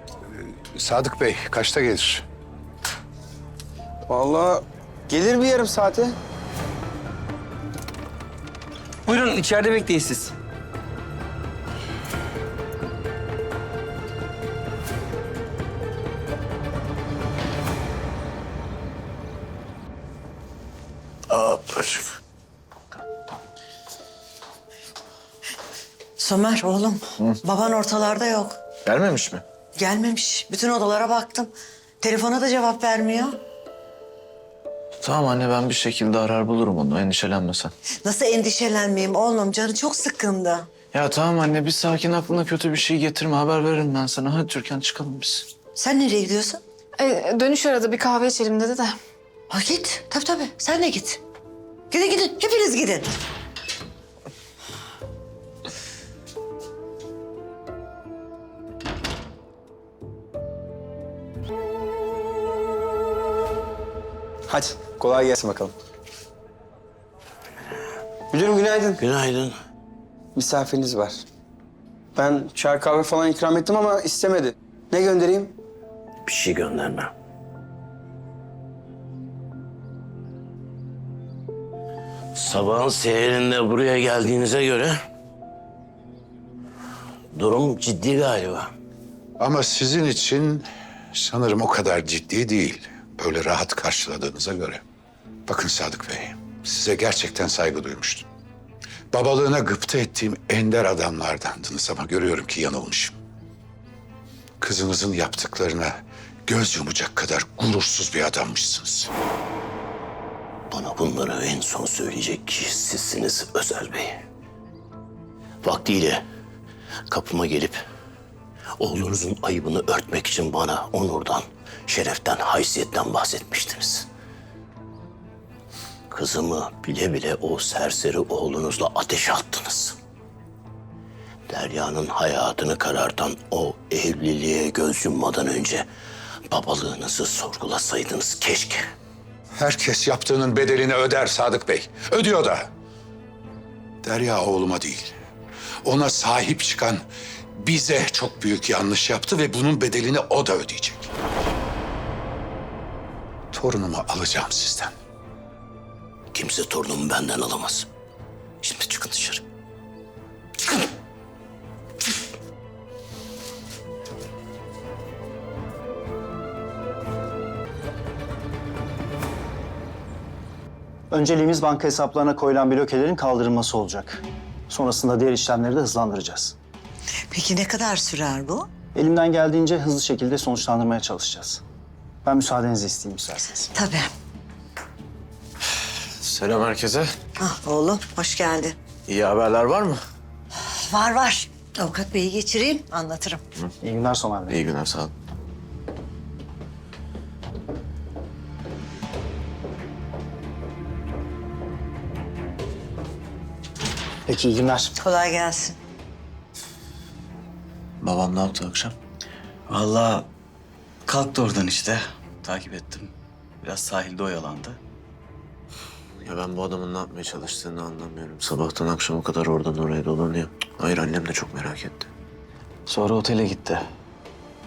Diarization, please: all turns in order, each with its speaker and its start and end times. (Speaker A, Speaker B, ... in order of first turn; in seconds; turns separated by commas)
Speaker A: 0.6-2.2, Speaker B: 4.1-6.2, Speaker B: 9.1-10.3, Speaker C: 21.4-21.9, Speaker D: 26.2-28.6, Speaker C: 28.9-29.4, Speaker D: 29.8-33.4, Speaker C: 35.0-37.7, Speaker D: 38.0-40.7, Speaker C: 40.9-45.5, Speaker D: 45.7-46.6, Speaker E: 47.0-48.9, Speaker D: 49.5-51.2, Speaker D: 51.9-53.2, Speaker B: 64.5-65.7, Speaker B: 68.3-69.0, Speaker F: 69.0-69.5, Speaker B: 70.3-71.2, Speaker B: 72.1-75.5, Speaker F: 76.2-77.1, Speaker F: 82.3-85.0, Speaker F: 87.3-88.7, Speaker A: 89.4-94.8, Speaker A: 95.5-98.2, Speaker A: 99.1-103.2, Speaker A: 104.6-109.1, Speaker F: 110.7-114.2, Speaker F: 115.6-116.2, Speaker F: 117.1-117.8, Speaker F: 118.8-124.1, Speaker F: 126.1-130.0, Speaker F: 131.5-135.8, Speaker F: 136.5-138.8, Speaker A: 139.6-142.7, Speaker A: 144.0-145.1, Speaker A: 145.8-147.0, Speaker A: 147.6-151.1, Speaker A: 153.5-154.9, Speaker F: 156.3-157.9, Speaker F: 158.6-159.4, Speaker G: 171.1-176.6, Speaker D: 177.3-178.7, Speaker G: 178.9-181.6, Speaker G: 182.2-183.7, Speaker D: 183.7-184.1, Speaker C: 186.2-187.1, Speaker D: 187.4-188.8, Speaker C: 189.1-190.0, Speaker D: 190.7-193.4, Speaker G: 193.8-194.6, Speaker C: 194.5-195.1, Speaker G: 204.3-204.9, Speaker D: 205.0-205.8, Speaker C: 208.0-208.9, Speaker H: 209.7-210.3, Speaker H: 211.1-214.8, Speaker C: 216.2-222.1, Speaker H: 222.9-223.9